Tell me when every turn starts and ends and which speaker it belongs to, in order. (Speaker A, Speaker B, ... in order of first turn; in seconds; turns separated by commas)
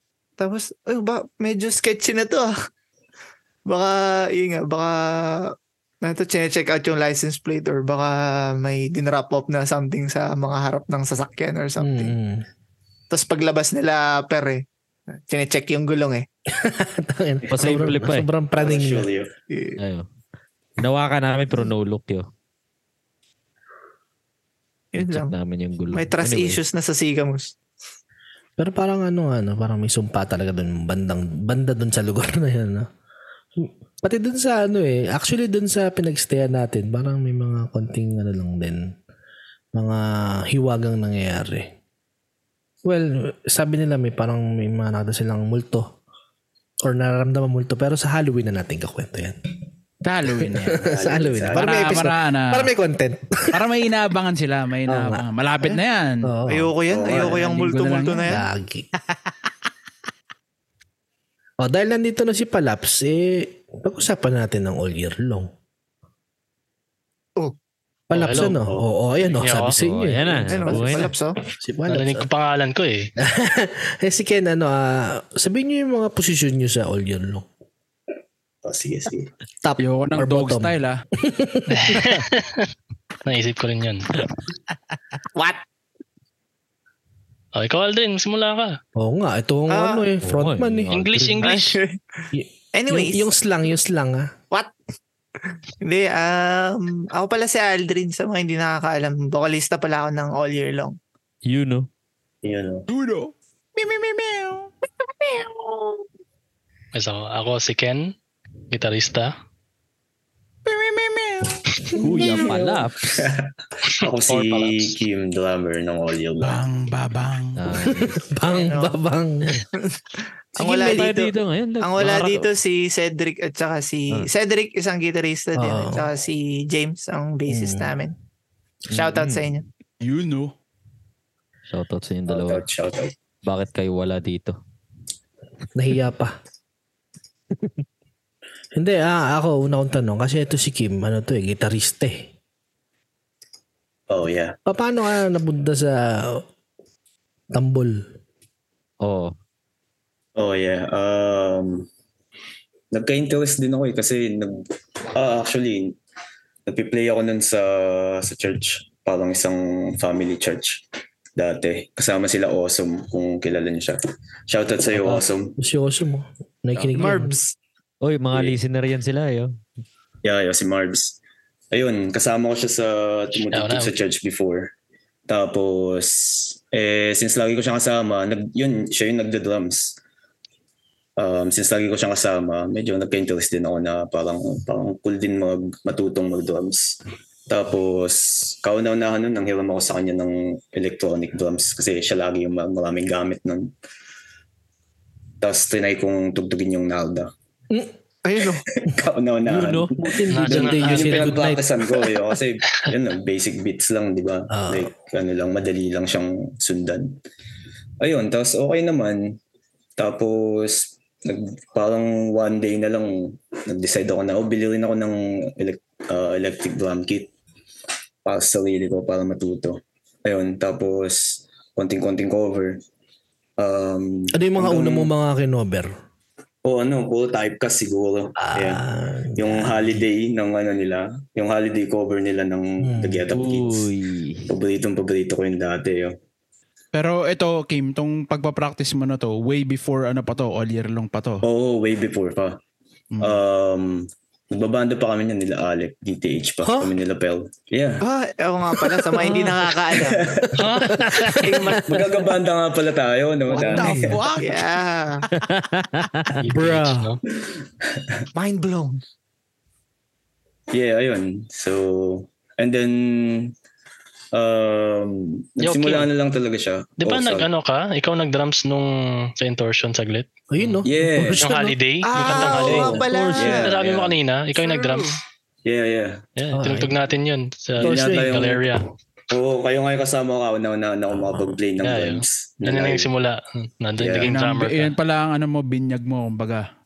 Speaker A: 0.4-2.5, Speaker A: 3.7-12.1, Speaker B: 11.8-12.4, Speaker A: 13.1-16.2, Speaker B: 16.5-19.1, Speaker C: 17.5-18.3, Speaker D: 18.6-19.3, Speaker A: 19.5-19.8, Speaker C: 19.8-20.1, Speaker C: 20.8-22.2, Speaker A: 24.9-25.3, Speaker C: 25.0-26.6, Speaker A: 25.9-27.5, Speaker B: 28.6-32.9, Speaker B: 33.6-38.9, Speaker B: 39.7-41.7, Speaker B: 42.8-45.9, Speaker B: 46.8-49.4, Speaker E: 50.0-50.8, Speaker B: 50.4-53.6, Speaker D: 50.8-52.1, Speaker E: 51.5-52.7, Speaker E: 53.5-56.3, Speaker B: 54.9-56.7, Speaker A: 56.5-58.5, Speaker D: 56.9-57.4, Speaker E: 57.1-58.3, Speaker B: 58.2-58.9, Speaker B: 61.6-65.5, Speaker B: 68.1-71.0, Speaker F: 68.1-68.6, Speaker D: 68.5-68.8, Speaker F: 69.4-69.8, Speaker C: 69.7-71.1, Speaker A: 70.5-71.4, Speaker B: 71.6-72.3, Speaker F: 71.9-73.1, Speaker B: 73.2-77.5, Speaker D: 78.6-79.3, Speaker B: 79.6-82.0, Speaker E: 79.8-81.0, Speaker F: 81.7-82.7, Speaker F: 83.2-84.1, Speaker A: 85.3-85.6, Speaker F: 87.5-88.8, Speaker B: 89.0-90.9, Speaker A: 89.7-90.0, Speaker C: 90.2-91.5, Speaker F: 90.9-91.8, Speaker A: 91.4-93.3, Speaker B: 92.3-94.3, Speaker A: 95.8-101.0, Speaker C: 101.5-101.9, Speaker D: 102.4-102.9, Speaker E: 102.9-104.7, Speaker A: 105.2-106.0, Speaker F: 106.9-108.1, Speaker F: 108.7-109.3, Speaker E: 110.7-111.5, Speaker C: 111.9-113.3, Speaker B: 112.2-112.6, Speaker D: 113.1-116.6, Speaker F: 114.3-115.0, Speaker E: 116.4-117.6, Speaker C: 117.6-118.2, Speaker B: 117.8-119.6, Speaker A: 118.5-119.0, Speaker A: 119.7-128.1, Speaker C: 120.6-122.5, Speaker B: 125.5-126.1, Speaker B: 127.5-127.9, Speaker C: 128.9-129.4, Speaker A: 128.9-129.6, Speaker E: 130.0-130.5, Speaker C: 131.7-132.6, Speaker D: 132.3-133.1, Speaker C: 133.4-134.6, Speaker B: 135.7-136.3, Speaker B: 138.7-142.3, Speaker D: 144.1-144.6, Speaker B: 144.7-146.4, Speaker B: 147.5-148.0, Speaker C: 149.0-149.3, Speaker D: 150.4-151.9, Speaker D: 152.9-155.9, Speaker D: 156.7-160.8, Speaker D: 161.4-165.6, Speaker B: 165.0-167.4, Speaker A: 166.9-167.5, Speaker C: 168.0-169.5, Speaker D: 170.2-171.2, Speaker D: 171.7-174.7, Speaker F: 173.5-173.9, Speaker D: 175.3-180.0, Speaker D: 181.2-193.7, Speaker D: 195.4-197.3, Speaker A: 198.2-198.6, Speaker D: 198.7-207.2, Speaker C: 199.5-199.9, Speaker B: 200.0-201.9, Speaker F: 200.3-201.4, Speaker B: 204.5-204.9, Speaker D: 208.0-209.4, Speaker D: 210.0-217.3, Speaker D: 218.2-222.8, Speaker D: 223.6-225.1, Speaker B: 224.3-225.9, Speaker D: 226.6-228.8, Speaker B: 228.4-230.0, Speaker D: 229.4-233.9, Speaker B: 232.8-233.2, Speaker C: 233.3-234.5, Speaker D: 234.5-236.2, Speaker E: 236.9-241.4, Speaker D: 241.4-242.6, Speaker E: 243.1-243.4, Speaker D: 243.2-248.0, Speaker B: 246.6-246.9, Speaker A: 248.0-250.2, Speaker B: 249.1-249.5, Speaker D: 249.9-250.5, Speaker F: 250.6-251.0, Speaker B: 250.6-252.1, Speaker A: 251.4-251.9, Speaker D: 251.6-254.2, Speaker B: 253.5-254.2, Speaker E: 253.6-254.7, Speaker A: 254.3-255.2, Speaker C: 255.3-256.4, Speaker F: 256.4-257.2, Speaker B: 256.5-257.1, Speaker D: 257.4-258.2, Speaker A: 258.3-259.0, Speaker D: 260.7-263.5, Speaker D: 264.3-267.5, Speaker F: 265.6-266.1, Speaker F: 267.0-270.8, Speaker B: 270.5-271.8, Speaker D: 270.8-271.4, Speaker F: 271.4-275.2, Speaker A: 272.1-273.7, Speaker D: 272.4-274.2, Speaker C: 273.0-273.4, Speaker A: 274.6-275.1, Speaker D: 275.6-276.2, Speaker F: 276.4-278.9, Speaker B: 276.5-276.9, Speaker B: 277.8-278.4, Speaker D: 277.8-278.8, Speaker D: 279.3-283.1, Speaker F: 281.8-284.9, Speaker D: 284.0-284.3, Speaker E: 284.2-286.6